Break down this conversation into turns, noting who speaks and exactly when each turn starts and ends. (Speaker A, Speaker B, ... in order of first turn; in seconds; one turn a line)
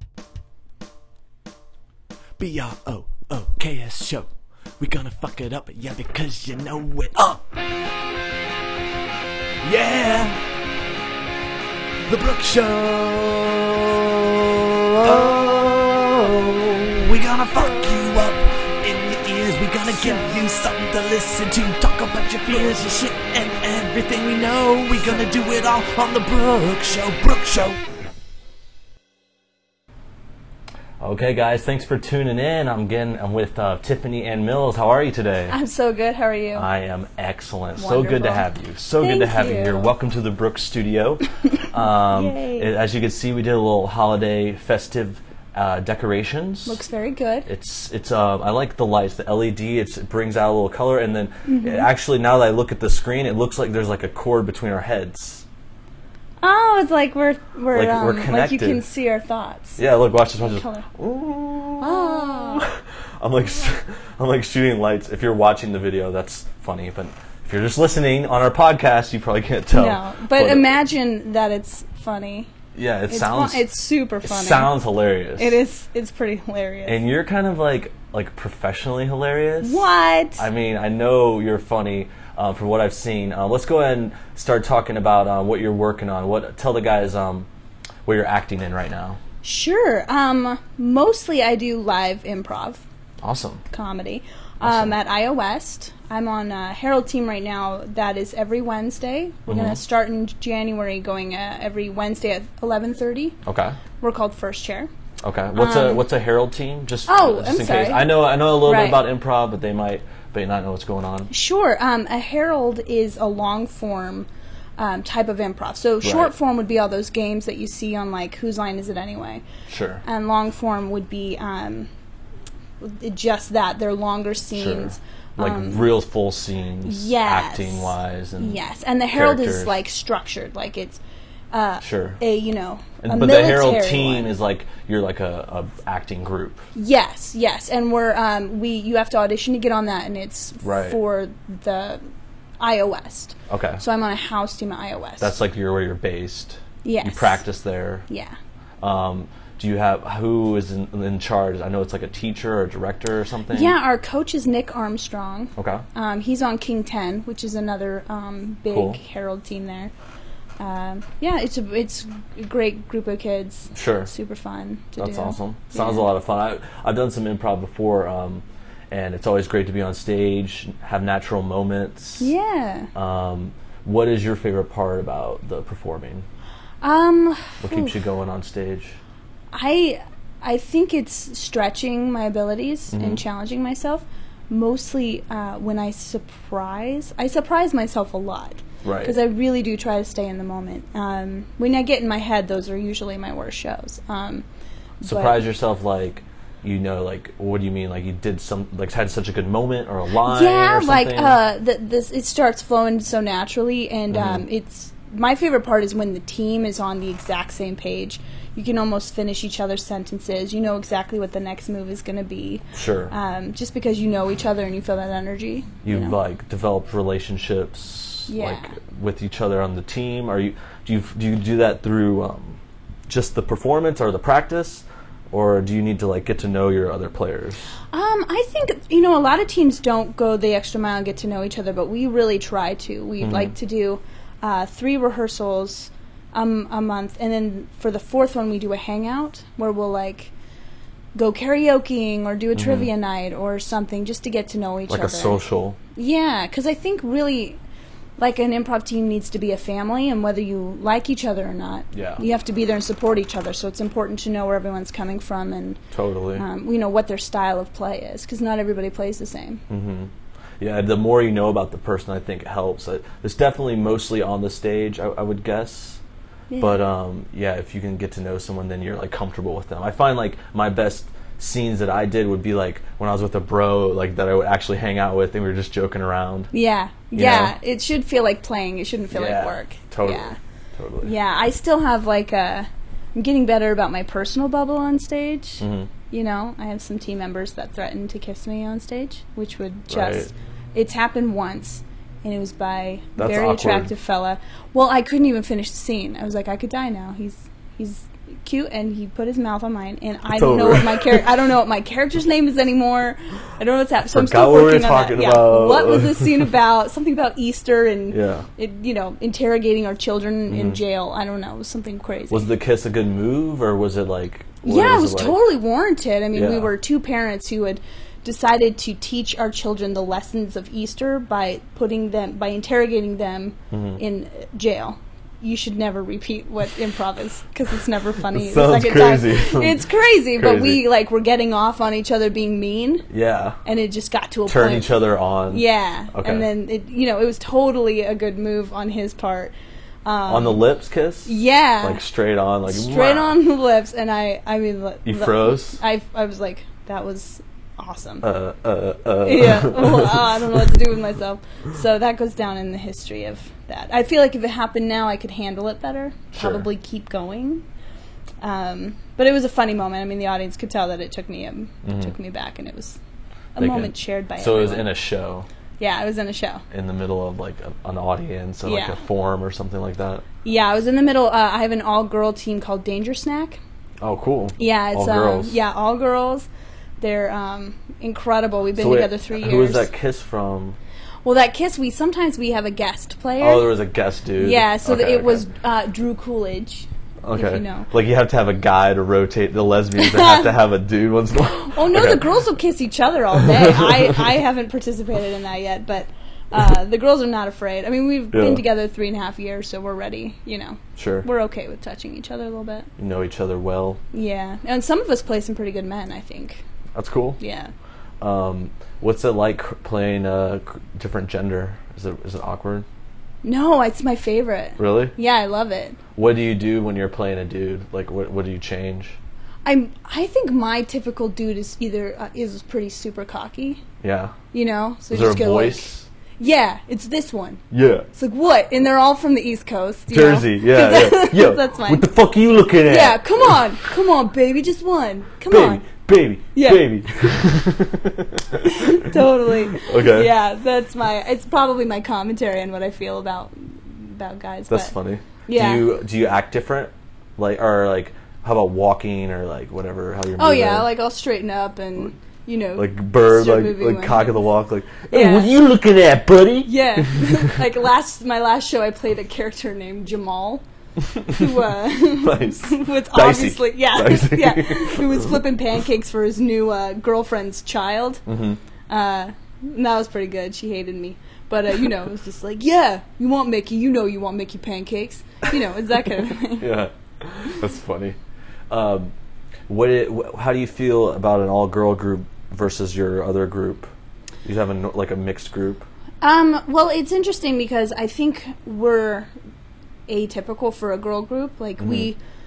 Speaker A: 2.4-7.4
Speaker A: 9.6-10.4
Speaker A: 12.1-27.8
Speaker B: 31.0-35.5
Speaker C: 35.5-36.7
Speaker B: 36.5-46.8
Speaker C: 37.8-38.4
Speaker C: 39.0-39.9
Speaker C: 42.1-42.7
Speaker C: 46.7-47.5
Speaker B: 47.5-55.4
Speaker C: 51.5-51.9
Speaker C: 56.4-59.8
Speaker B: 57.7-58.8
Speaker B: 59.8-70.7
Speaker C: 60.4-60.9
Speaker C: 61.8-62.7
Speaker C: 69.7-72.5
Speaker B: 72.7-73.6
Speaker C: 73.1-74.7
Speaker B: 74.2-75.6
Speaker C: 75.4-77.0
Speaker B: 76.8-79.8
Speaker C: 79.6-80.4
Speaker B: 80.4-87.5
Speaker B: 88.0-89.2
Speaker C: 89.4-92.8
Speaker B: 93.2-93.6
Speaker C: 93.7-103.4
Speaker B: 94.6-95.0
Speaker B: 99.5-99.8
Speaker B: 103.4-103.8
Speaker C: 104.0-104.9
Speaker B: 105.2-111.3
Speaker C: 105.5-106.0
Speaker C: 107.1-109.0
Speaker C: 111.3-119.4
Speaker B: 116.0-116.3
Speaker B: 119.7-120.0
Speaker C: 120.0-121.9
Speaker C: 122.8-125.9
Speaker B: 124.5-128.6
Speaker C: 126.8-134.3
Speaker B: 129.1-129.7
Speaker B: 131.8-132.2
Speaker B: 133.0-136.6
Speaker C: 136.7-142.0
Speaker B: 140.6-141.0
Speaker C: 142.6-145.3
Speaker B: 143.5-143.8
Speaker B: 145.2-148.1
Speaker C: 146.8-147.4
Speaker C: 148.1-148.3
Speaker B: 148.8-153.7
Speaker C: 153.5-159.9
Speaker B: 155.6-155.8
Speaker B: 158.7-159.0
Speaker C: 160.6-166.1
Speaker B: 163.7-164.1
Speaker B: 165.0-172.3
Speaker C: 172.2-172.9
Speaker B: 172.9-176.2
Speaker C: 176.8-177.9
Speaker B: 177.6-179.0
Speaker C: 179.5-194.4
Speaker B: 182.9-183.2
Speaker B: 188.8-189.2
Speaker C: 195.0-195.4
Speaker B: 195.0-201.4
Speaker C: 200.2-216.2
Speaker B: 204.1-204.4
Speaker B: 212.7-213.1
Speaker B: 215.8-227.7
Speaker C: 218.3-218.8
Speaker C: 227.9-240.3
Speaker B: 233.2-233.5
Speaker C: 241.1-245.4
Speaker B: 242.5-242.9
Speaker B: 244.9-245.8
Speaker C: 245.9-247.6
Speaker C: 248.2-255.8
Speaker B: 251.9-252.2
Speaker B: 255.9-256.4
Speaker C: 256.4-259.6
Speaker B: 259.7-266.0
Speaker C: 266.5-266.8
Speaker B: 266.6-276.5
Speaker C: 276.5-280.4
Speaker B: 277.1-277.5
Speaker B: 279.1-281.1
Speaker C: 281.0-312.5
Speaker B: 285.6-285.9
Speaker B: 289.9-290.3
Speaker B: 293.2-293.9
Speaker B: 300.3-301.2
Speaker B: 304.1-306.4
Speaker B: 308.1-308.4
Speaker B: 310.5-310.8
Speaker B: 312.3-315.4
Speaker C: 314.6-333.1
Speaker B: 316.3-316.7
Speaker B: 323.7-324.0
Speaker B: 328.3-330.8
Speaker B: 333.1-333.6
Speaker C: 333.6-339.5
Speaker B: 334.5-336.4
Speaker C: 340.0-340.6
Speaker B: 340.3-343.4
Speaker C: 341.2-342.0
Speaker C: 342.6-348.2
Speaker B: 345.0-345.8
Speaker B: 348.2-350.3
Speaker C: 349.2-357.6
Speaker B: 356.3-356.6
Speaker C: 358.4-363.0
Speaker B: 361.8-362.1
Speaker C: 363.6-364.9
Speaker B: 363.6-365.5
Speaker C: 365.8-366.6
Speaker B: 366.7-370.2
Speaker C: 368.6-369.0
Speaker C: 370.4-373.6
Speaker B: 374.0-375.5
Speaker C: 374.6-376.5
Speaker C: 377.0-379.9
Speaker B: 378.8-380.8
Speaker C: 381.2-383.7
Speaker B: 383.4-385.4
Speaker C: 384.4-387.9
Speaker B: 387.2-392.2
Speaker C: 389.9-390.5
Speaker C: 391.5-402.9
Speaker B: 393.4-394.1
Speaker B: 398.3-398.6
Speaker B: 401.0-401.3
Speaker B: 403.0-404.0
Speaker C: 404.1-406.6
Speaker B: 406.9-407.4
Speaker C: 407.4-407.7
Speaker B: 408.2-412.9
Speaker C: 413.4-416.0
Speaker B: 414.8-415.1
Speaker B: 416.1-419.2
Speaker C: 419.6-423.8
Speaker B: 424.0-424.4
Speaker C: 424.5-427.6
Speaker B: 425.1-426.1
Speaker B: 427.7-428.1
Speaker C: 428.1-432.1
Speaker B: 430.1-433.6
Speaker C: 432.8-435.8
Speaker B: 435.5-439.1
Speaker C: 436.5-437.3
Speaker C: 438.6-444.9
Speaker B: 439.7-440.3
Speaker B: 444.7-450.9
Speaker C: 445.5-445.9
Speaker C: 450.4-454.4
Speaker B: 452.8-457.5
Speaker C: 455.1-455.5
Speaker C: 456.6-460.6
Speaker C: 461.2-468.2
Speaker B: 462.1-465.3
Speaker B: 468.2-468.6
Speaker C: 468.9-476.7
Speaker B: 476.6-478.2
Speaker B: 478.7-479.1
Speaker B: 479.7-483.9
Speaker B: 484.4-485.9
Speaker C: 486.2-489.3
Speaker C: 490.1-492.2
Speaker B: 491.8-492.1